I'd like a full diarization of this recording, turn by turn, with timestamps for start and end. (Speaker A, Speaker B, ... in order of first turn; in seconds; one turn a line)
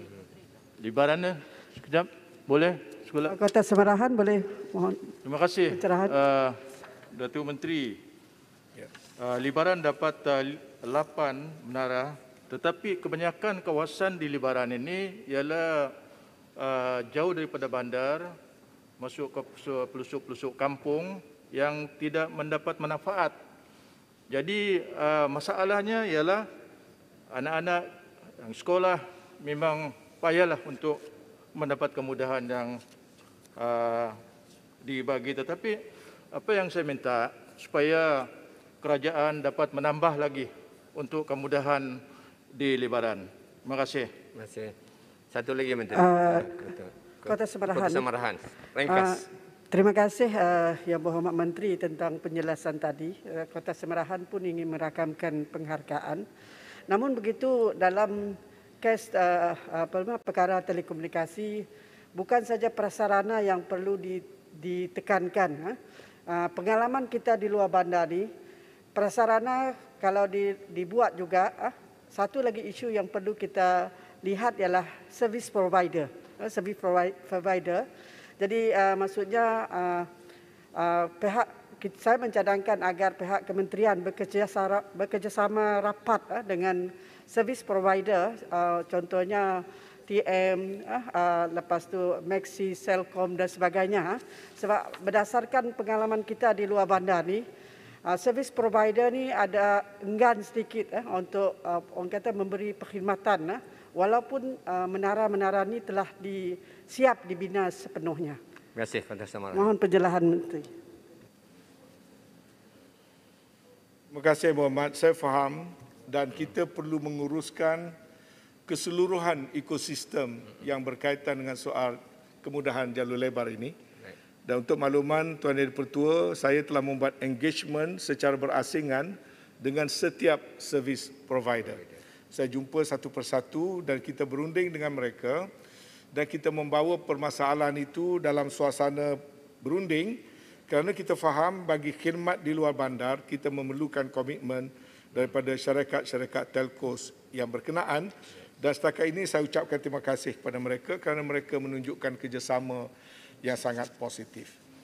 Speaker A: 0.8-3.3
Speaker B: 3.3-5.1
Speaker A: 5.2-6.6
Speaker B: 5.7-6.1
Speaker A: 7.1-8.0
Speaker A: 9.2-15.9
Speaker A: 16.6-18.4
Speaker A: 19.0-23.4
Speaker A: 24.3-26.4
Speaker A: 27.3-27.9
Speaker A: 28.4-31.0
Speaker A: 31.5-32.8
Speaker A: 33.6-34.2
Speaker A: 34.8-35.8
Speaker A: 36.3-38.3
Speaker A: 38.8-42.0
Speaker A: 42.5-44.1
Speaker C: 44.3-44.7
Speaker C: 45.3-49.2
Speaker B: 45.9-46.7
Speaker B: 47.2-48.0
Speaker B: 48.9-56.2
Speaker B: 56.9-65.8
Speaker B: 66.3-68.3
Speaker B: 68.9-77.8
Speaker B: 78.4-80.1
Speaker B: 80.8-97.4
Speaker B: 98.0-108.4
Speaker C: 108.7-109.7
Speaker B: 109.5-110.7
Speaker D: 114.1-118.0
Speaker D: 118.7-123.8
Speaker D: 124.4-135.5
Speaker D: 136.1-152.9
Speaker D: 153.4-154.6